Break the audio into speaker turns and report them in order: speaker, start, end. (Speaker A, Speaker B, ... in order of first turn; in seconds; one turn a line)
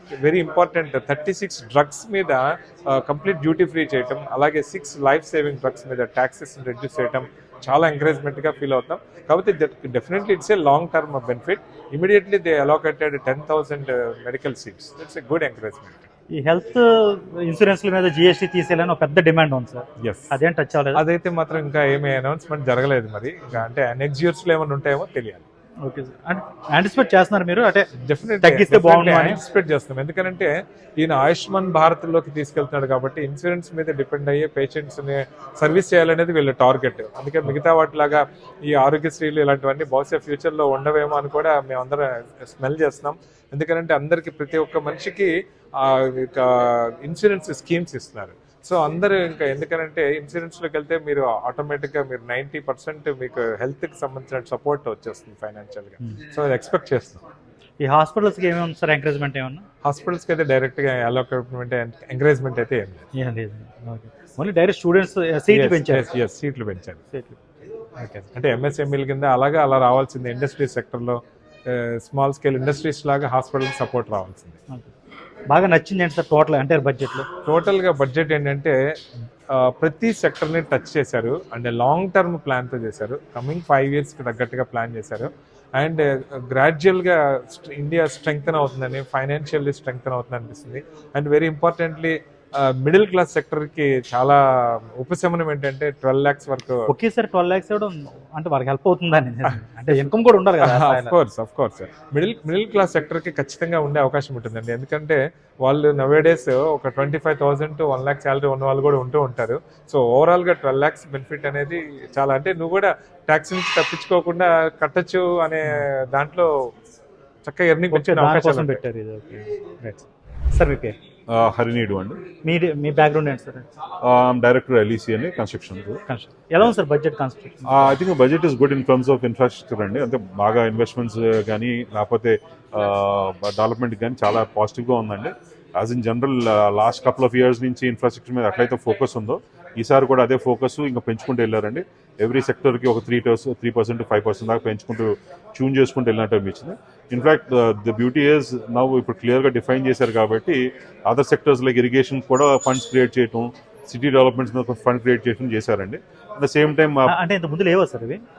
Speaker A: 0.2-16.1
Speaker B: 16.3-21.0
Speaker A: 20.0-20.3
Speaker A: 20.9-25.4
Speaker B: 25.8-27.9
Speaker A: 28.0-57.2
Speaker B: 28.4-29.4
Speaker B: 57.8-59.6
Speaker A: 59.8-63.0
Speaker B: 63.1-66.1
Speaker A: 65.5-67.0
Speaker B: 67.1-67.4
Speaker A: 68.0-74.6
Speaker B: 75.5-77.2
Speaker A: 77.4-78.7
Speaker A: 79.5-94.4
Speaker A: 95.0-96.9
Speaker B: 96.9-101.1
Speaker A: 100.6-116.5
Speaker A: 117.4-118.8
Speaker B: 117.9-121.0
Speaker C: 121.3-122.2
Speaker B: 122.4-123.7
Speaker C: 124.0-126.0
Speaker B: 126.1-127.9
Speaker C: 127.7-157.1
Speaker B: 157.1-158.2